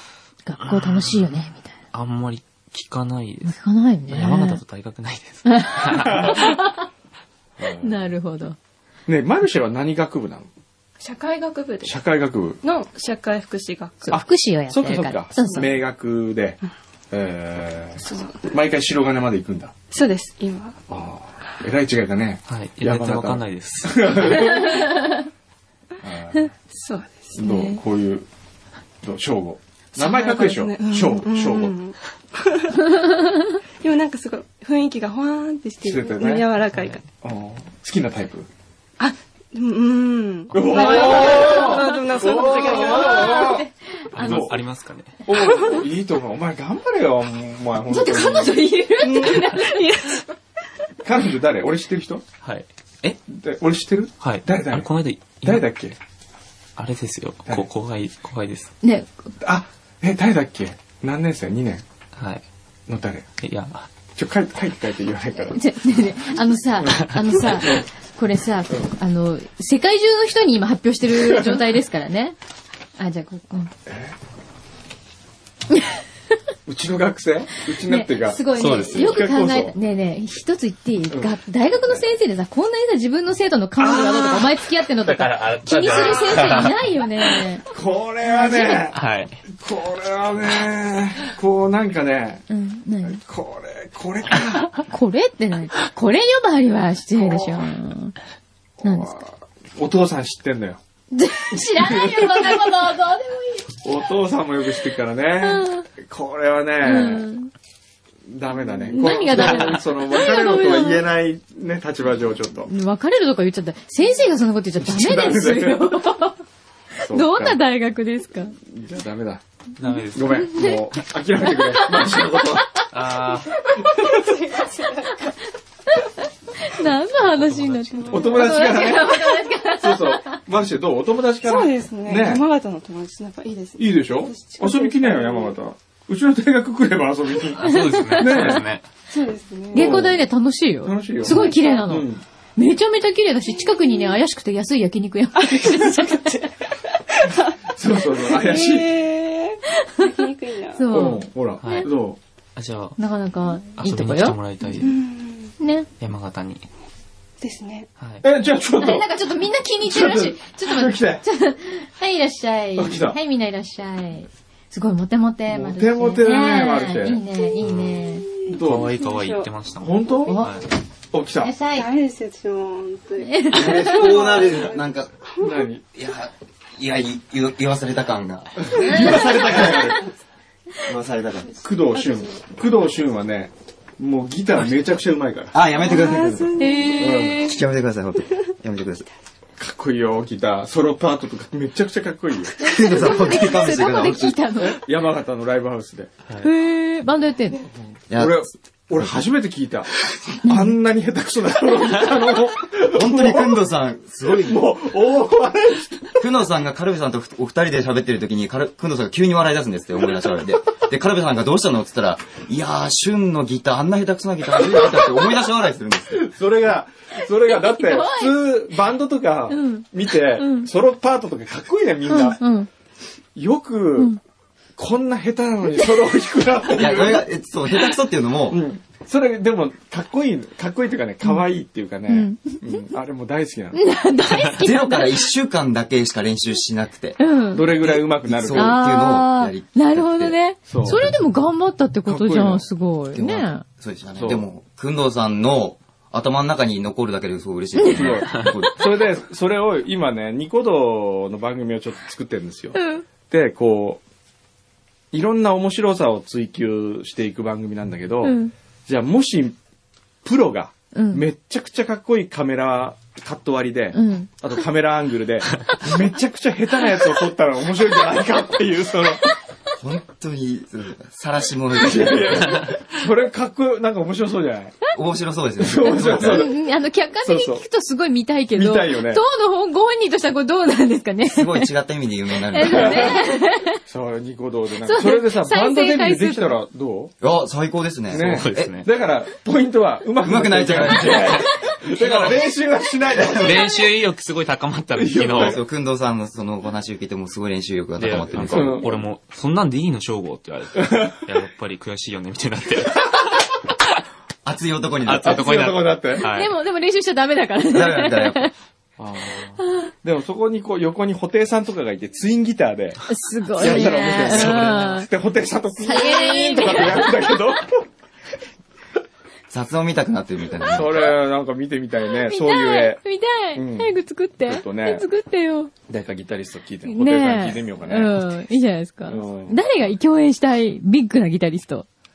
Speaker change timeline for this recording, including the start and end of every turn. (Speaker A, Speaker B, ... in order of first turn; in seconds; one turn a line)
Speaker A: 0.5-1.8
Speaker B: 0.6-1.2
Speaker B: 1.9-3.6
Speaker A: 3.5-4.6
Speaker B: 4.1-6.6
Speaker A: 5.5-6.9
Speaker C: 6.0-6.4
Speaker C: 7.6-8.1
Speaker A: 7.8-8.6
Speaker C: 9.1-10.5
Speaker D: 11.0-12.0
Speaker C: 11.8-12.6
Speaker D: 12.6-14.1
Speaker A: 14.1-15.7
Speaker C: 14.1-16.6
Speaker C: 17.1-19.7
Speaker D: 18.0-18.6
Speaker D: 19.9-20.8
Speaker C: 20.9-24.9
Speaker B: 22.5-24.6
Speaker A: 24.8-25.2
Speaker C: 26.0-26.5
Speaker D: 26.7-27.8
Speaker C: 27.4-28.3
Speaker C: 29.0-31.8
Speaker D: 30.0-33.2
Speaker D: 33.8-37.1
Speaker C: 35.8-36.5
Speaker B: 36.7-37.0
Speaker C: 37.2-38.5
Speaker D: 39.0-43.6
Speaker C: 40.5-43.7
Speaker A: 40.8-41.8
Speaker A: 42.5-44.4
Speaker B: 44.1-45.2
Speaker C: 44.2-44.6
Speaker C: 45.3-48.7
Speaker D: 45.3-45.8
Speaker A: 47.9-50.2
Speaker D: 49.0-50.2
Speaker C: 51.0-52.2
Speaker B: 52.4-53.2
Speaker C: 53.3-54.9
Speaker B: 54.2-55.6
Speaker C: 55.4-56.0
Speaker B: 56.8-58.7
Speaker A: 58.8-59.3
Speaker C: 59.4-61.8
Speaker B: 62.2-62.4
Speaker C: 62.9-63.3
Speaker B: 63.4-63.9
Speaker C: 64.2-65.6
Speaker A: 65.5-72.4
Speaker C: 67.6-67.8
Speaker C: 71.2-71.6
Speaker A: 73.0-73.7
Speaker C: 73.9-74.1
Speaker A: 75.7-76.0
Speaker C: 76.7-79.8
Speaker A: 77.8-87.6
Speaker B: 78.5-79.2
Speaker C: 81.1-81.4
Speaker B: 83.8-84.5
Speaker B: 85.0-86.8
Speaker C: 85.9-86.6
Speaker C: 87.7-89.0
Speaker A: 88.2-88.9
Speaker B: 88.9-89.4
Speaker C: 89.6-92.5
Speaker A: 92.5-93.2
Speaker C: 93.0-94.8
Speaker A: 94.9-98.2
Speaker C: 97.2-97.7
Speaker C: 98.8-100.8
Speaker A: 98.8-99.2
Speaker A: 101.1-103.8
Speaker C: 101.6-102.7
Speaker C: 103.8-107.3
Speaker A: 105.4-105.9
Speaker A: 106.8-107.5
Speaker C: 108.3-112.7
Speaker A: 108.9-111.0
Speaker A: 112.7-116.4
Speaker C: 114.8-116.0
Speaker A: 117.0-118.5
Speaker C: 117.0-117.6
Speaker C: 118.6-119.4
Speaker B: 119.8-120.5
Speaker A: 119.9-120.9
Speaker C: 120.1-122.8
Speaker A: 121.4-122.8
Speaker B: 122.9-123.6
Speaker D: 123.8-125.3
Speaker A: 125.9-130.4
Speaker B: 127.2-128.4
Speaker C: 128.1-132.4
Speaker D: 131.4-135.5
Speaker C: 133.8-138.7
Speaker B: 137.6-138.8
Speaker A: 137.6-138.6
Speaker D: 139.1-139.9
Speaker C: 139.7-140.2
Speaker A: 139.7-146.3
Speaker C: 140.8-142.2
Speaker D: 141.4-141.8
Speaker D: 143.6-144.1
Speaker D: 145.4-150.9
Speaker C: 147.7-148.9
Speaker A: 150.8-151.9
Speaker C: 150.9-152.2
Speaker B: 151.6-151.9
Speaker B: 152.6-153.0
Speaker A: 153.0-154.4
Speaker B: 153.8-155.0
Speaker D: 154.8-155.6
Speaker A: 155.6-155.9
Speaker B: 156.0-156.7
Speaker D: 157.4-157.9
Speaker C: 158.2-159.1
Speaker A: 158.8-168.3
Speaker C: 159.8-161.2
Speaker C: 162.8-163.2
Speaker C: 165.5-167.2
Speaker B: 167.6-170.7
Speaker D: 168.2-169.5
Speaker C: 168.5-169.0
Speaker C: 169.8-170.4
Speaker A: 170.3-170.6
Speaker C: 171.1-171.6
Speaker A: 171.4-171.9
Speaker D: 171.7-175.7
Speaker A: 173.2-174.1
Speaker E: 173.5-175.1
Speaker C: 175.4-175.8
Speaker E: 175.9-180.0
Speaker C: 178.6-180.0
Speaker A: 178.8-179.2
Speaker D: 178.9-179.8
Speaker E: 180.9-181.5
Speaker D: 181.6-182.4
Speaker C: 181.6-185.6
Speaker E: 185.5-186.6
Speaker D: 185.7-187.3
Speaker A: 186.6-187.6
Speaker C: 187.0-187.5
Speaker E: 187.3-189.1
Speaker C: 189.6-192.7
Speaker E: 192.6-194.4
Speaker A: 192.6-194.8
Speaker C: 194.6-196.1
Speaker A: 196.4-197.6
Speaker E: 198.1-198.5
Speaker C: 198.1-199.9
Speaker C: 200.4-203.7
Speaker A: 200.4-200.7
Speaker E: 202.9-204.7
Speaker C: 204.3-206.1
Speaker E: 206.2-216.2
Speaker C: 214.9-215.2
Speaker C: 216.1-222.4
Speaker A: 217.5-218.6
Speaker A: 219.5-220.7
Speaker A: 222.1-222.7
Speaker C: 223.3-224.2
Speaker C: 224.8-227.3
Speaker E: 226.7-228.6
Speaker C: 228.5-233.8
Speaker A: 232.1-232.9
Speaker A: 233.7-235.3
Speaker E: 234.6-237.2
Speaker A: 237.2-237.8
Speaker C: 237.5-238.8
Speaker E: 237.7-240.4
Speaker A: 238.5-243.6
Speaker C: 240.7-241.1
Speaker C: 242.1-242.7
Speaker E: 243.1-248.9
Speaker C: 244.2-244.4
Speaker A: 247.8-248.8
Speaker C: 247.9-254.0
Speaker A: 252.8-253.1
Speaker C: 255.1-259.6
Speaker A: 258.2-258.5
Speaker C: 260.2-269.3
Speaker A: 260.9-261.3
Speaker A: 263.9-264.3
Speaker E: 269.8-272.6
Speaker C: 271.7-274.8
Speaker E: 274.9-276.5
Speaker C: 275.6-276.6
Speaker A: 276.1-281.7
Speaker C: 277.2-277.6
Speaker C: 278.6-279.2
Speaker E: 281.2-283.2
Speaker A: 282.5-283.8
Speaker C: 282.6-283.3
Speaker C: 283.9-287.1
Speaker A: 284.8-286.6
Speaker E: 287.2-288.8
Speaker C: 288.1-293.8
Speaker B: 288.1-288.9
Speaker E: 290.2-291.4
Speaker B: 291.8-292.4
Speaker B: 293.4-295.6
Speaker C: 294.9-295.6
Speaker E: 295.3-298.9
Speaker B: 298.0-303.2
Speaker C: 298.4-299.0
Speaker C: 300.8-301.1
Speaker E: 304.4-305.5
Speaker B: 305.0-306.5
Speaker C: 305.2-306.3
Speaker A: 306.2-308.5
Speaker E: 307.7-308.4
Speaker C: 309.0-313.0
Speaker A: 309.6-309.9
Speaker A: 313.1-315.1
Speaker C: 313.6-317.9
Speaker E: 313.6-314.4
Speaker B: 314.1-315.1
Speaker A: 315.8-317.4
Speaker E: 319.5-321.2
Speaker C: 320.6-323.0
Speaker A: 322.1-325.7
Speaker C: 323.6-325.1
Speaker C: 325.9-328.2
Speaker A: 326.9-331.9
Speaker C: 329.1-329.6